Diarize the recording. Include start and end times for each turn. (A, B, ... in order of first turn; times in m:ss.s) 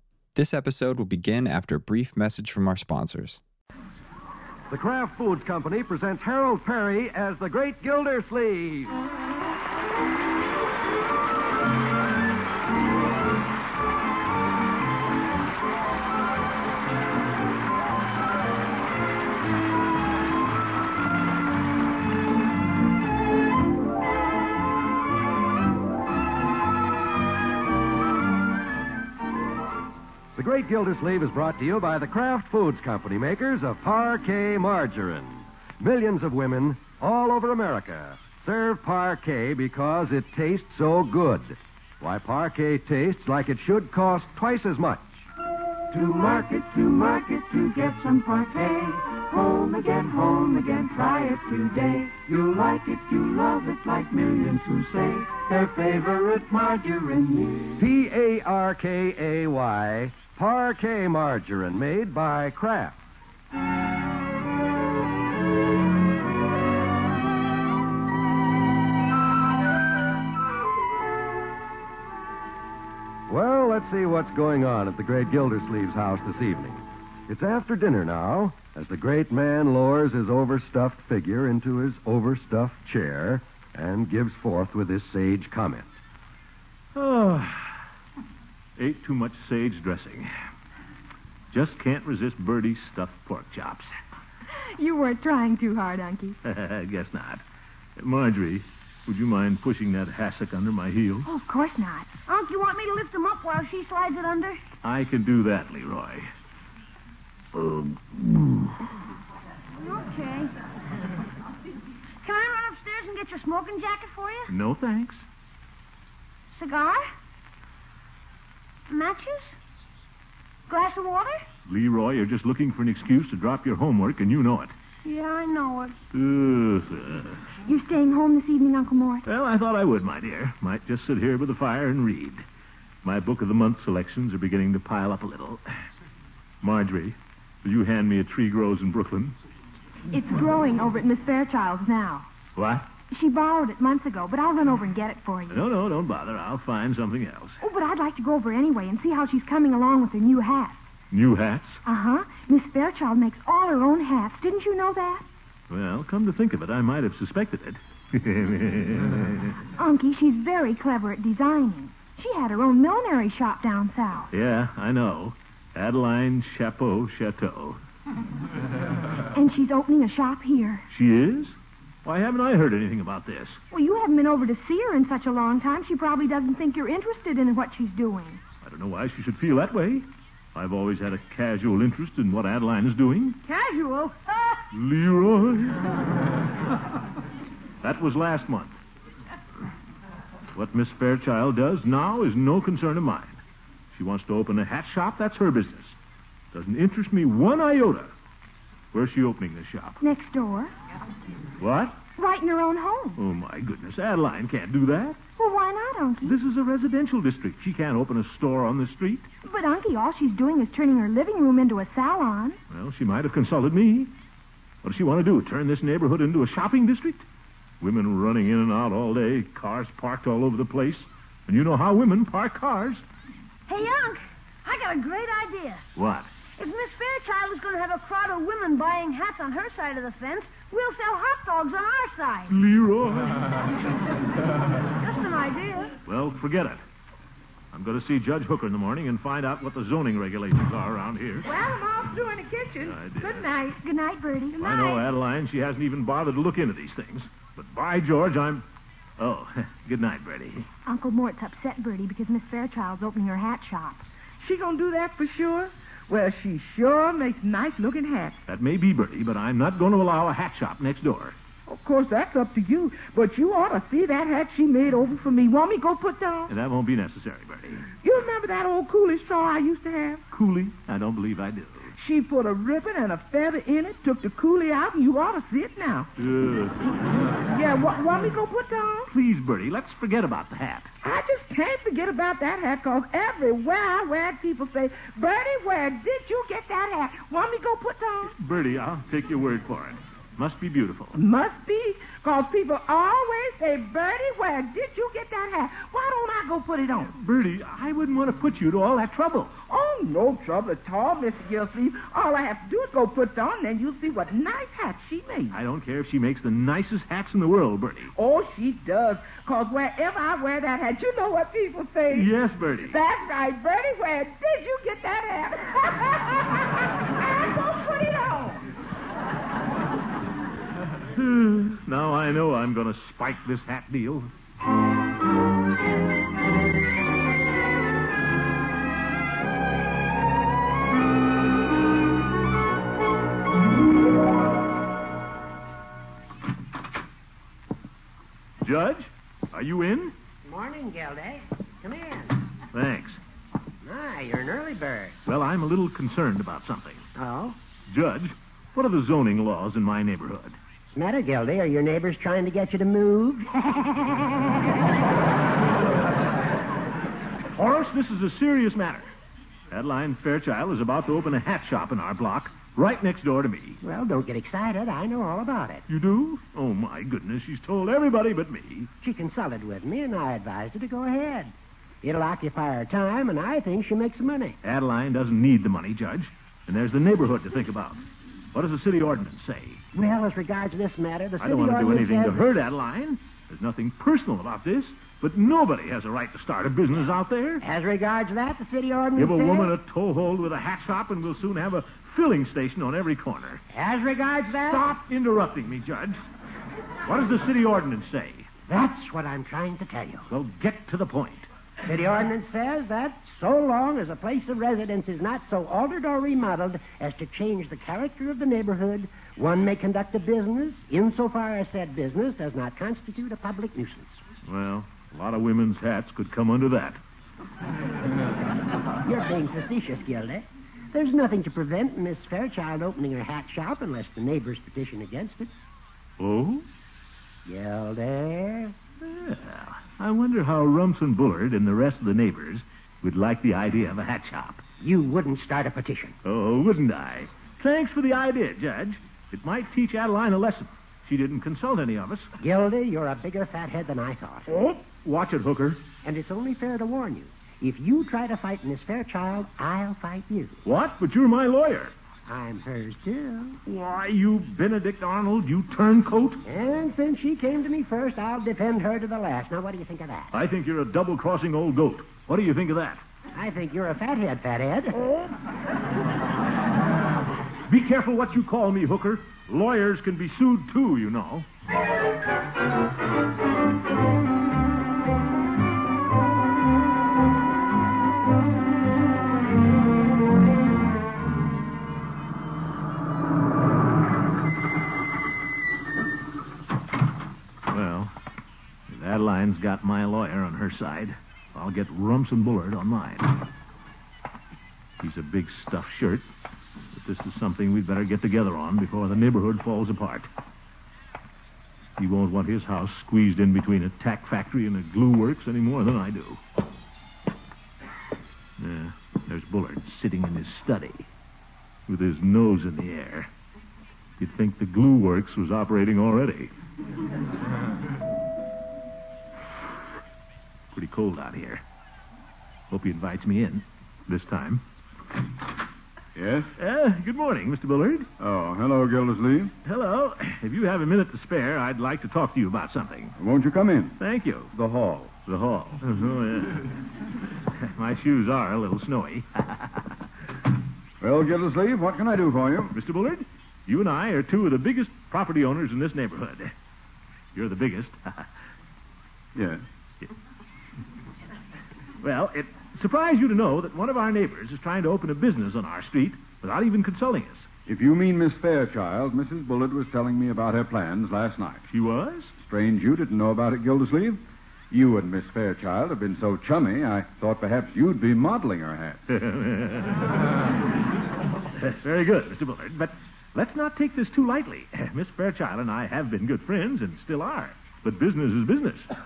0:00.3-0:03.4 A
0:04.7-0:08.9 B
0:30.4-0:45.2 B
0:45.9-0:57.8 C
0:57.8-1:03.0 B
1:13.3-1:25.9 B
1:26.9-1:27.7 D
1:28.8-1:30.3 D
1:31.5-1:33.9 D
1:34.7-1:36.4 E
1:36.4-1:37.4 D
1:38.0-1:41.3 D
1:41.2-1:42.2 E
1:42.3-1:44.6 F
1:44.8-1:46.3 D
1:47.5-1:48.8 D
1:49.8-1:50.5 F
1:52.2-1:54.5 F
1:54.5-1:55.2 D
1:56.5-1:57.1 F
1:58.9-1:59.6 F
2:00.7-2:01.4 F
2:01.7-2:04.7 D
2:05.0-2:05.9 F
2:06.1-2:07.4 D
2:07.6-2:09.2 E
2:09.2-2:12.4 D
2:13.0-2:15.6 D
2:16.6-2:19.3 D
2:20.1-2:22.3 E
2:22.6-2:22.9 D
2:23.1-2:25.6 E
2:25.5-2:27.6 D
2:27.6-2:30.8 E
2:31.1-2:31.8 D
2:31.8-2:35.2 E
2:35.7-2:39.5 D
2:39.8-2:44.3 E
2:44.3-2:47.8 D
2:49.3-2:50.8 E
2:50.9-2:53.6 D
2:53.7-2:58.4 E
2:58.6-3:03.4 D
3:03.4-3:04.6 F
3:04.7-3:05.8 D
3:07.8-3:08.8 D
3:10.5-3:13.4 D
3:13.9-3:16.0 D
3:16.5-3:18.1 D
3:18.9-3:20.0 D
3:20.0-3:20.7 E
3:21.6-3:22.0 D
3:22.2-3:23.2 E
3:23.2-3:25.2 D
3:25.4-3:26.4 E
3:26.2-3:29.3 D
3:29.4-3:32.6 E
3:32.7-3:34.1 D
3:34.8-3:37.2 D
3:37.8-3:43.0 D
3:43.7-3:45.8 F
3:46.0-3:46.3 D
3:46.6-3:52.5 F
3:52.5-3:53.6 D
3:55.0-3:55.9 F
3:56.0-3:56.8 D
3:57.7-4:01.5 D
4:01.4-4:03.8 G
4:02.8-4:03.5 D
4:03.8-4:05.1 E
4:04.6-4:08.6 D
4:09.2-4:10.7 D
4:10.8-4:14.0 E
4:14.4-4:18.4 G
4:18.4-4:21.3 D
4:21.6-4:26.5 G
4:26.5-4:27.9 D
4:28.0-4:30.2 G
4:30.3-4:31.9 D
4:32.0-4:36.1 G
4:36.2-4:37.0 D
4:37.3-4:39.1 G
4:39.1-4:40.9 D
4:41.0-4:48.3 G
4:48.4-4:51.2 D
4:51.1-4:57.1 G
4:57.2-4:59.6 D
4:59.7-5:05.6 G
5:05.5-5:08.1 D
5:08.1-5:12.3 G
5:12.1-5:13.0 D
5:12.9-5:18.6 G
5:21.1-5:24.3 D
5:38.6-5:40.1 D
5:40.4-5:42.4 H
5:42.7-5:43.2 D
5:43.8-5:45.1 H
5:45.2-5:47.0 D
5:47.2-5:47.6 H
5:47.9-5:50.6 D
5:50.9-5:54.5 H
5:57.5-5:59.0 D
5:59.7-6:03.8 D
6:03.8-6:05.8 H
6:05.9-6:08.9 D
6:09.0-6:14.6 H
6:14.6-6:18.0 D
6:18.5-6:19.8 D
6:19.9-6:22.5 H
6:21.4-6:27.6 D
6:27.6-6:29.7 H
6:29.2-6:33.6 D
6:33.7-6:34.9 H
6:34.7-6:36.2 D
6:37.0-6:38.5 D
6:38.7-6:40.3 H
6:40.3-6:41.5 D
6:41.8-6:54.2 H
6:54.4-6:57.0 D
6:59.0-7:05.5 H
7:06.2-7:06.6 D
7:07.4-7:08.8 H
7:09.0-7:14.6 D
7:14.8-7:16.2 H
7:16.2-7:22.3 D
7:22.4-7:24.5 H
7:24.5-7:25.8 D
7:26.0-7:30.6 H
7:30.6-7:31.9 D
7:32.3-7:33.6 H
7:33.6-7:36.4 D
7:36.4-7:40.3 H
7:40.3-7:43.0 D
7:43.3-7:45.0 H
7:47.7-7:51.4 D
8:07.7-8:08.1 D
8:08.9-8:13.4 D
8:15.0-8:16.2 D
8:16.9-8:20.3 D
8:22.0-8:26.4 D
8:28.6-8:31.1 D
8:31.9-8:33.3 D
8:34.2-8:36.5 D
8:40.7-8:41.6 D
8:42.7-8:44.6 D
8:46.2-8:46.5 I
8:46.6-8:48.1 D
8:48.2-8:49.5 I
8:49.6-8:53.2 D
8:53.2-8:54.0 I
8:54.0-8:54.5 D
8:54.5-8:55.1 I
8:55.2-8:56.8 D
8:57.4-8:59.8 D
9:01.0-9:02.7 I
9:02.7-9:06.5 D
9:07.3-9:08.3 D
9:09.4-9:09.6 I
9:12.0-9:17.5 D
9:17.7-9:21.6 I
9:21.7-9:22.3 D
9:22.4-9:29.0 I
9:29.1-9:30.2 D
9:31.6-9:38.9 D